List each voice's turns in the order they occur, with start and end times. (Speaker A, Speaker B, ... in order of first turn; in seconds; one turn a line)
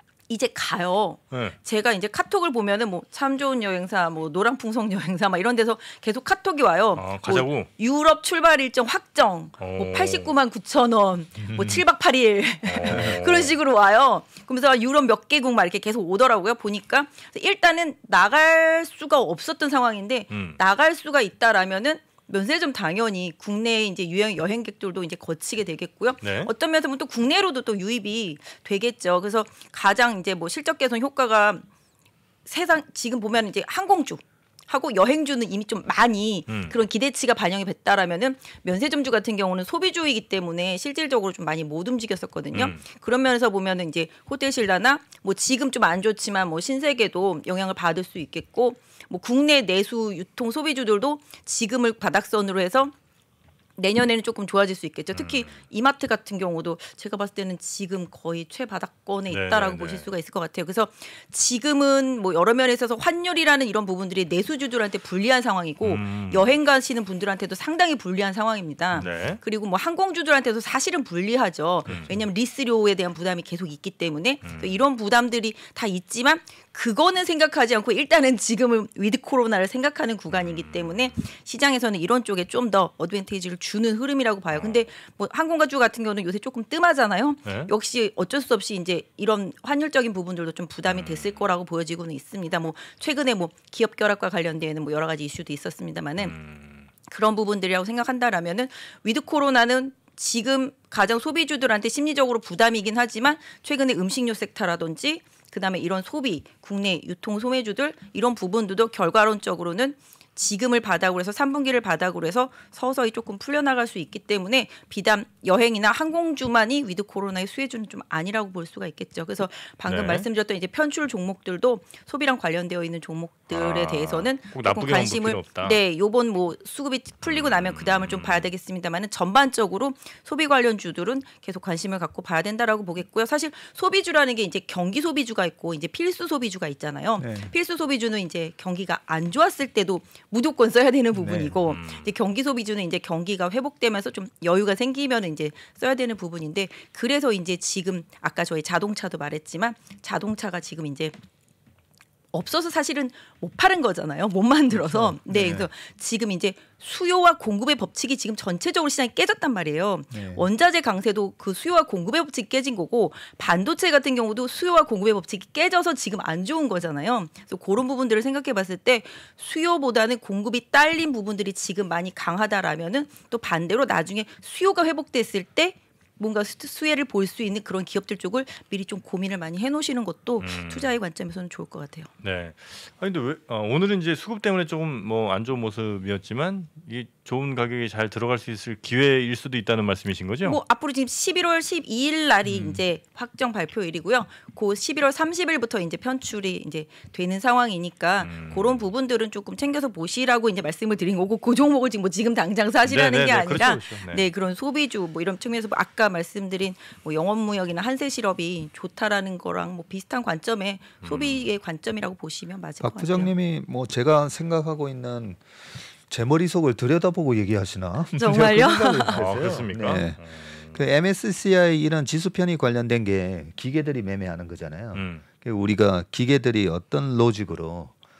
Speaker A: 0.3-31.6
Speaker B: 1.3-1.6
Speaker B: 6.9-7.7
Speaker B: 9.6-10.3
Speaker C: 11.4-11.8
Speaker B: 12.6-13.5
Speaker C: 12.9-13.2
Speaker B: 20.3-20.6
Speaker B: 26.2-26.5
Speaker A: 32.5-52.9
Speaker B: 36.5-36.7
Speaker B: 42.5-42.8
Speaker A: 53.8-96.3
Speaker B: 55.1-55.6
Speaker B: 59.3-60.1
Speaker B: 65.8-66.5
Speaker B: 68.9-69.4
Speaker B: 71.9-72.2
Speaker B: 74.4-74.8
Speaker B: 80.3-81.1
Speaker B: 84.5-84.8
Speaker B: 87.4-87.7
Speaker B: 90.8-91.5
Speaker B: 96.2-96.9
Speaker A: 97.1-151.1
Speaker B: 119.8-120.3
Speaker B: 123.5-125.8
Speaker B: 127.2-128.5
Speaker C: 137.2-137.5
Speaker C: 141.1-141.6
Speaker B: 141.7-142.1
Speaker A: 152.3-182.1
Speaker C: 154.7-155.7
Speaker C: 160.1-160.4
Speaker B: 180.4-180.9
Speaker B: 182.2-190.6
Speaker A: 190.4-213.3
Speaker C: 192.5-192.8
Speaker B: 198.2-198.8
Speaker B: 202.8-204.2
Speaker B: 211.0-211.5
Speaker C: 212.8-215.4
Speaker C: 216.0-227.9
Speaker A: 218.1-219.3
Speaker B: 219.1-220.8
Speaker B: 224.9-225.2